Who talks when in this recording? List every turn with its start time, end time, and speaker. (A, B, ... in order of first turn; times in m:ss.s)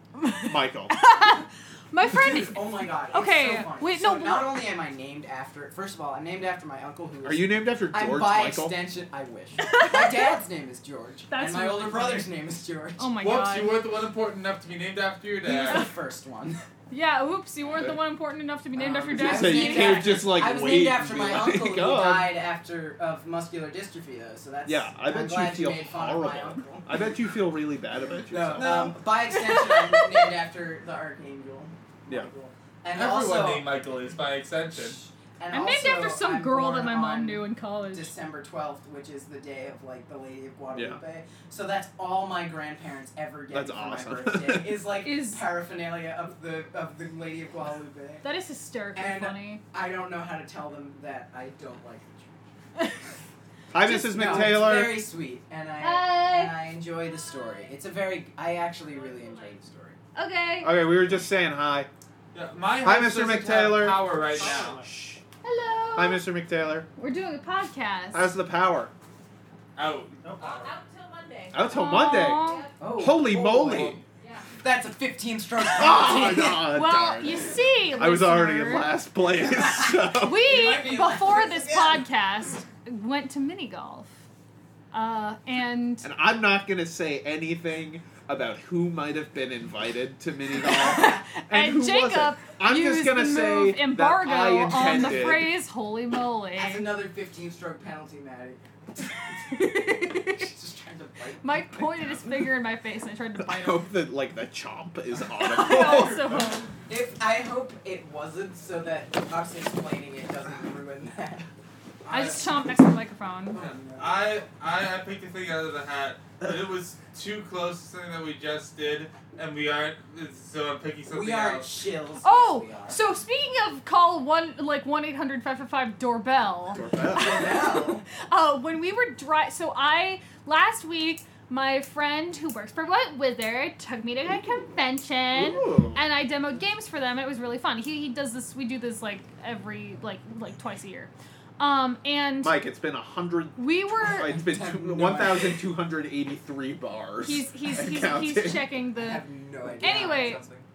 0:00.2-0:04.6 A
0:00.4-0:01.0 B
0:02.0-0:13.1 C
0:07.2-0:08.8 B
0:09.6-0:10.4 A
0:11.3-0:12.3 A
0:13.0-0:13.8 A
0:13.2-0:15.9 D
0:15.4-0:16.6 C
0:16.9-0:20.1 A
0:18.7-0:27.0 C
0:19.1-0:22.4 B
0:24.6-0:29.0 B
0:28.3-0:33.7 C
0:28.6-0:30.3 A
0:32.9-0:35.0 D
0:35.4-0:48.2 C
0:35.5-0:38.1 A
0:40.7-0:41.0 B
0:43.5-0:44.8 B
0:45.0-0:45.4 A
0:48.2-0:49.6 A
0:48.9-0:52.4 C
0:53.7-0:55.1 B
0:53.8-0:54.6 A
0:54.0-1:00.0 C
0:55.8-0:56.6 A
0:58.7-0:59.6 E
1:00.1-1:00.8 A
1:00.6-1:01.9 B
1:02.3-1:04.8 D
1:02.8-1:05.2 B
1:04.4-1:04.7 C
1:05.4-1:06.3 A
1:05.9-1:06.9 B
1:07.0-1:08.3 A
1:08.1-1:08.9 B
1:09.8-1:10.7 D
1:10.4-1:12.9 E
1:11.5-1:12.4 B
1:11.6-1:12.7 A
1:12.8-1:14.0 C
1:13.0-1:14.0 B
1:13.6-1:14.0 D
1:14.2-1:14.5 E
1:14.6-1:16.7 C
1:15.7-1:20.4 B
1:16.0-1:18.9 A
1:19.3-1:22.0 C
1:20.2-1:24.1 A
1:24.9-1:26.1 A
1:26.0-1:35.6 B
1:30.6-1:36.9 A
1:36.5-1:41.5 C
1:39.5-1:40.5 A
1:41.4-1:43.9 A
1:42.0-1:42.4 B
1:43.4-1:46.6 B
1:45.3-1:46.7 A
1:46.9-1:51.4 C
1:52.0-1:52.4 D
1:52.1-1:53.6 A
1:53.5-1:54.2 C
1:53.5-2:01.7 D
2:01.1-2:03.0 C
2:02.2-2:22.6 A
2:06.7-2:07.5 B
2:07.1-2:08.0 C
2:15.3-2:16.0 B
2:22.4-2:28.7 B
2:23.6-2:24.4 A
2:24.1-2:25.7 C
2:27.2-2:29.2 A
2:29.0-2:30.4 C
2:29.8-2:30.6 D
2:29.8-2:30.4 A